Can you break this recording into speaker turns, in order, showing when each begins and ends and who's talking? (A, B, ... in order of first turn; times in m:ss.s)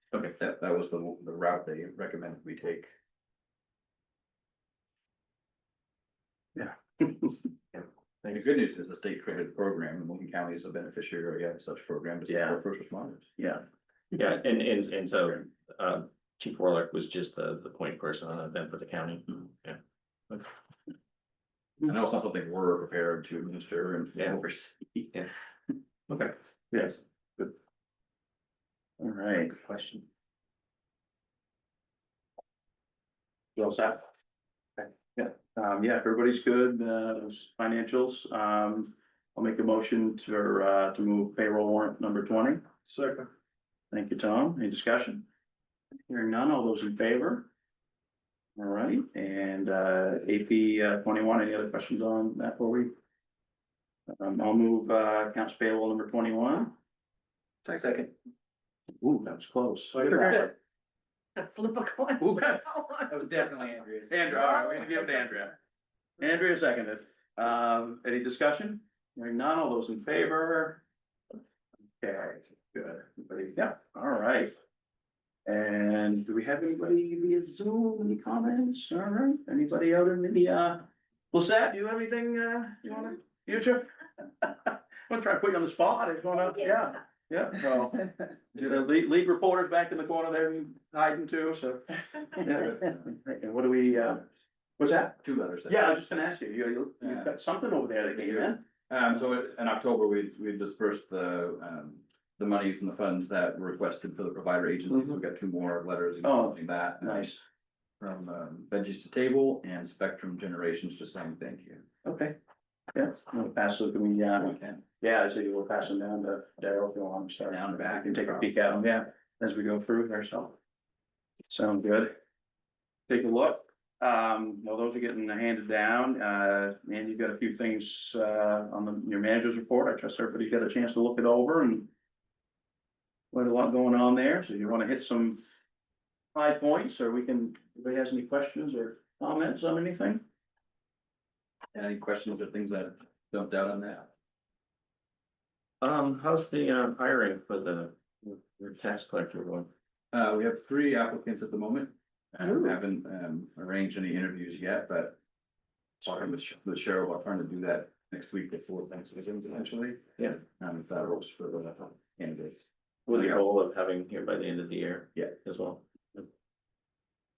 0:00.1-0:00.4 A
0:00.3-0:02.9 B
0:06.6-0:07.4 C
0:07.7-0:08.4 A
0:08.3-0:13.3 B
0:12.3-0:12.6 C
0:13.4-0:13.6 C
0:14.1-0:19.8 A
0:21.8-0:25.0 B
0:26.1-0:26.3 A
0:26.7-0:27.0 C
0:29.0-0:30.0 C
0:33.6-0:34.0 C
0:34.8-0:42.6 C
0:42.8-0:43.3 B
0:43.9-0:45.2 C
0:46.1-0:47.5 C
0:48.6-0:52.9 C
0:54.1-0:56.7 C
0:57.6-0:58.1 B
0:59.0-1:00.5 C
1:00.0-1:00.5 B
1:01.4-1:04.9 B
1:04.1-1:05.6 C
1:06.2-1:10.8 C
1:12.0-1:14.5 C
1:15.4-1:34.2 C
1:34.8-1:38.6 C
1:35.2-1:35.9 B
1:37.0-1:37.3 B
1:38.1-1:47.3 B
1:46.2-1:47.4 C
1:48.0-1:51.8 B
1:52.0-1:52.4 C
1:52.9-2:00.6 C
1:54.4-1:54.8 B
1:57.5-1:58.5 B
2:01.5-2:02.2 C
2:03.1-2:11.9 C
2:13.3-2:15.4 C
2:16.3-2:20.2 C
2:21.7-2:24.1 B
2:25.8-2:29.7 A
2:30.1-2:35.2 B
2:36.0-2:43.4 B
2:43.1-2:46.3 A